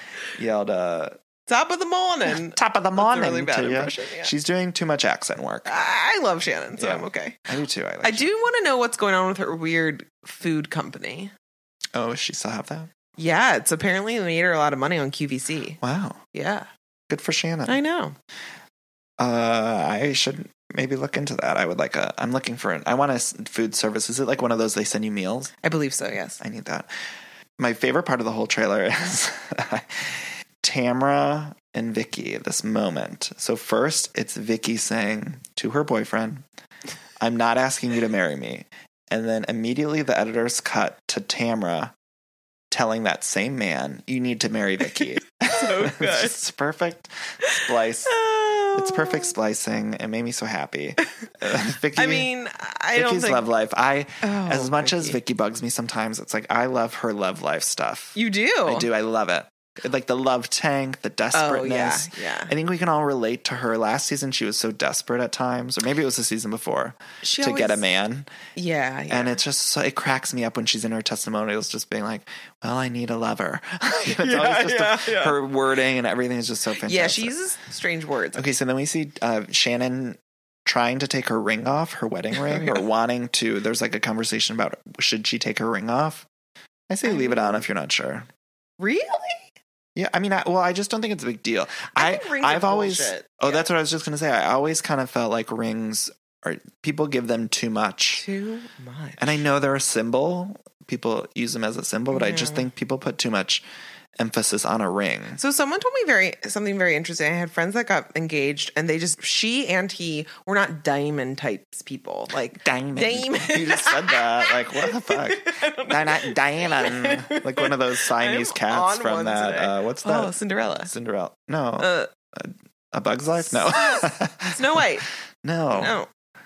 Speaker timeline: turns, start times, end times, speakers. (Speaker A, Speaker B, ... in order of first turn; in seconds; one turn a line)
Speaker A: 0.3-1.2
Speaker B: 1.5-4.3
Speaker A: 2.3-5.8
Speaker B: 5.6-7.4
Speaker A: 6.8-8.3
Speaker B: 8.0-11.3
Speaker A: 11.9-12.9
Speaker B: 13.2-15.8
Speaker A: 15.8-16.2
Speaker B: 16.3-16.7
Speaker A: 17.1-17.8
Speaker B: 17.7-18.1
Speaker A: 19.2-25.5
Speaker B: 25.6-26.4
Speaker A: 26.4-26.9
Speaker A: 27.6-36.4
Speaker A: 37.2-41.9
Speaker A: 42.7-48.2
Speaker B: 45.5-46.3
Speaker B: 47.4-49.3
Speaker A: 48.7-52.3
Speaker B: 51.9-53.5
Speaker A: 52.9-68.3
Speaker B: 54.2-55.2
Speaker B: 58.1-58.9
Speaker B: 61.3-62.5
Speaker B: 67.2-67.9
Speaker B: 68.5-69.4
Speaker A: 69.1-77.3
Speaker B: 74.0-75.4
Speaker B: 76.8-78.5
Speaker A: 78.3-86.2
Speaker B: 82.4-82.8
Speaker A: 86.9-88.3
Speaker B: 87.0-87.6
Speaker B: 88.8-89.5
Speaker A: 90.0-98.2
Speaker B: 91.9-93.7
Speaker B: 98.2-99.4
Speaker A: 99.2-103.6
Speaker B: 102.1-102.7
Speaker A: 104.2-105.4
Speaker B: 105.4-120.9
Speaker A: 112.6-120.3
Speaker A: 120.8-124.8
Speaker B: 121.8-122.1
Speaker B: 123.4-125.0
Speaker A: 125.4-126.0
Speaker B: 125.7-126.1